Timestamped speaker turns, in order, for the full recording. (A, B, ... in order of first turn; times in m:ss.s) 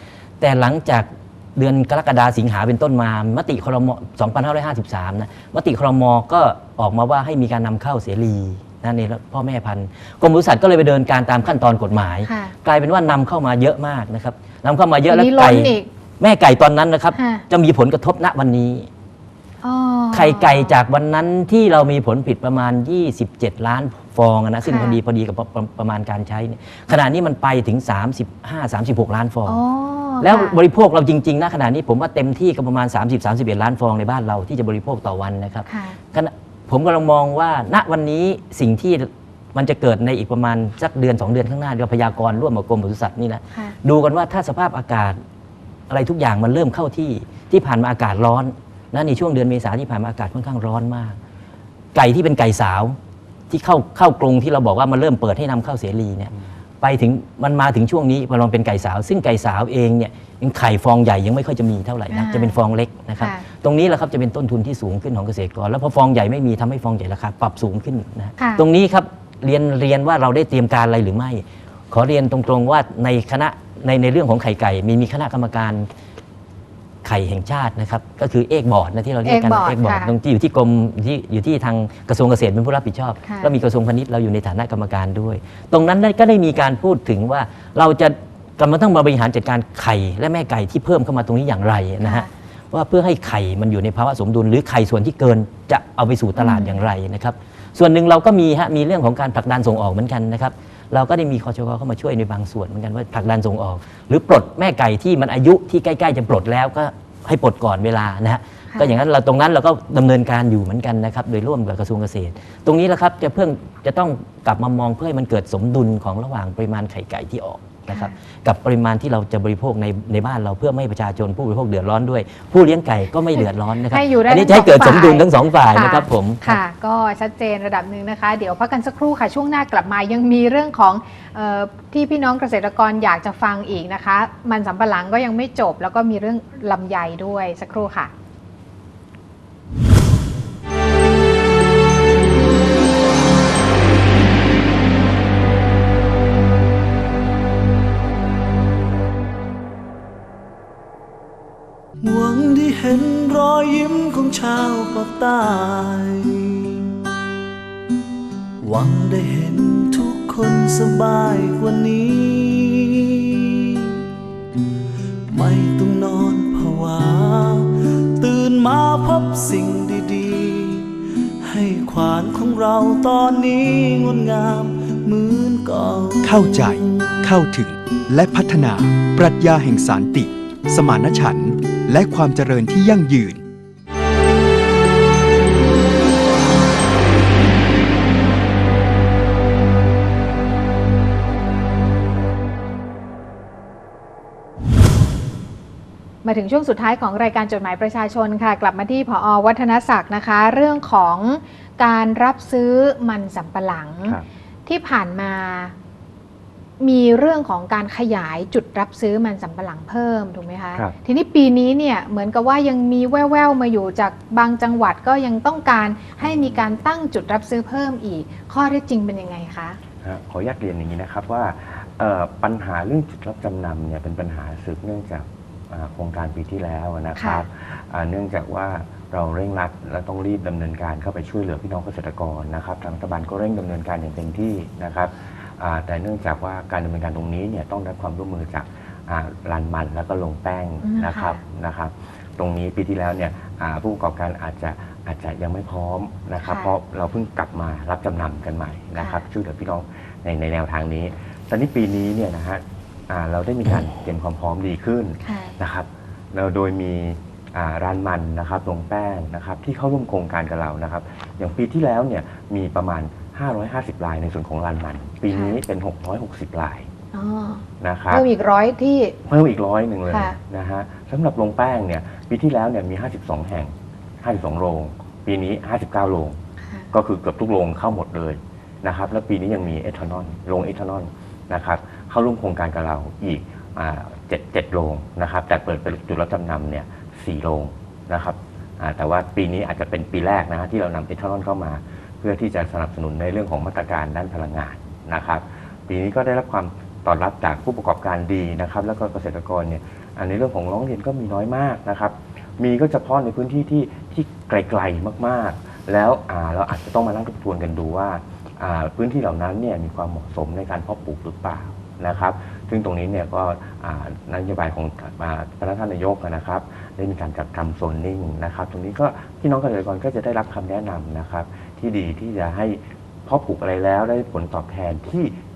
0:00.4-0:18.9 A
0:12.3-0:12.6 B
0:15.1-0:15.9 B
0:17.1-0:17.4 B
0:19.6-0:20.7 B
0:20.1-0:29.6 A
0:24.6-0:25.0 B
0:29.5-0:30.6 B
0:30.2-0:45.2 A
0:35.7-0:36.0 B
0:45.9-0:51.2 A
0:51.9-0:53.0 A
0:53.5-1:15.9 A
1:02.1-1:02.6 B
1:03.2-1:03.4 B
1:08.4-1:08.6 B
1:17.0-2:06.6 A
1:19.2-1:20.1 B
1:23.2-1:23.5 B
1:32.0-1:32.3 B
1:36.4-1:36.8 B
1:48.7-1:49.0 B
2:03.4-2:18.1 B
2:32.0-2:36.8 C
2:38.6-2:43.4 C
2:45.3-2:50.9 C
2:51.4-2:56.8 C
2:56.2-3:03.4 D
3:16.2-3:25.8 B
3:26.8-3:39.8 B
3:36.2-3:36.6 E
3:40.0-4:26.9 E
3:47.2-3:47.4 B
4:00.8-4:01.4 B
4:06.4-4:06.7 B
4:09.0-4:09.2 B
4:15.2-4:15.6 B
4:25.3-4:25.6 B
4:27.1-4:29.2 B
4:27.8-4:28.2 E
4:29.3-4:36.4 E
4:30.1-4:30.4 B
4:36.6-4:36.9 B
4:36.9-5:25.4 E